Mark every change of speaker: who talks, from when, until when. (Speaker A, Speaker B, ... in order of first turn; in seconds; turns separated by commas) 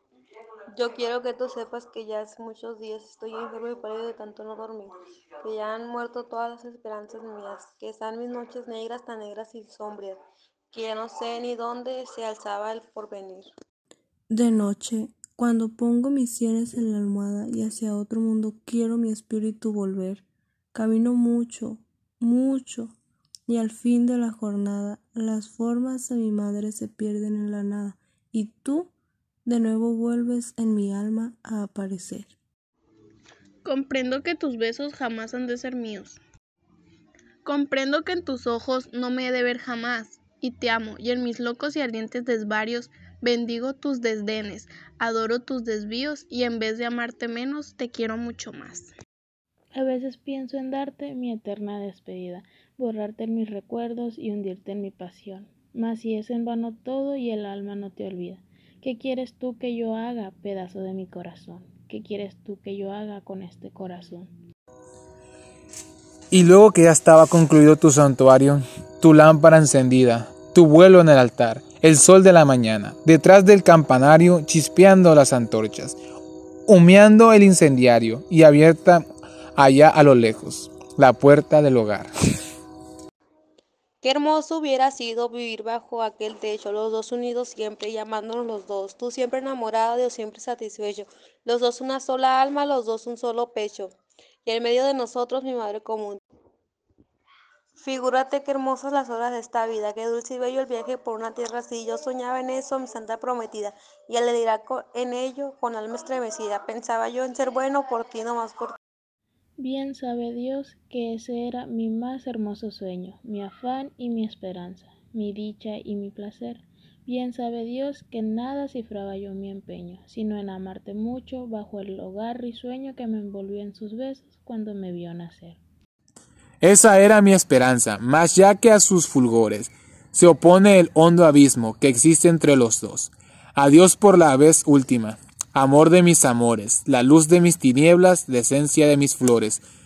Speaker A: 0.7-10.2, Speaker A: 10.7-13.5, Speaker B: 14.3-28.9, Speaker B: 29.4-32.3, Speaker C: 33.6-36.2, Speaker C: 37.5-48.9, Speaker D: 49.7-64.3, Speaker E: 66.3-76.0, Speaker E: 76.7-79.0, Speaker E: 79.6-82.1, Speaker A: 84.0-93.9, Speaker A: 94.5-96.2, Speaker A: 97.8-108.8, Speaker D: 109.6-125.6, Speaker E: 126.6-139.6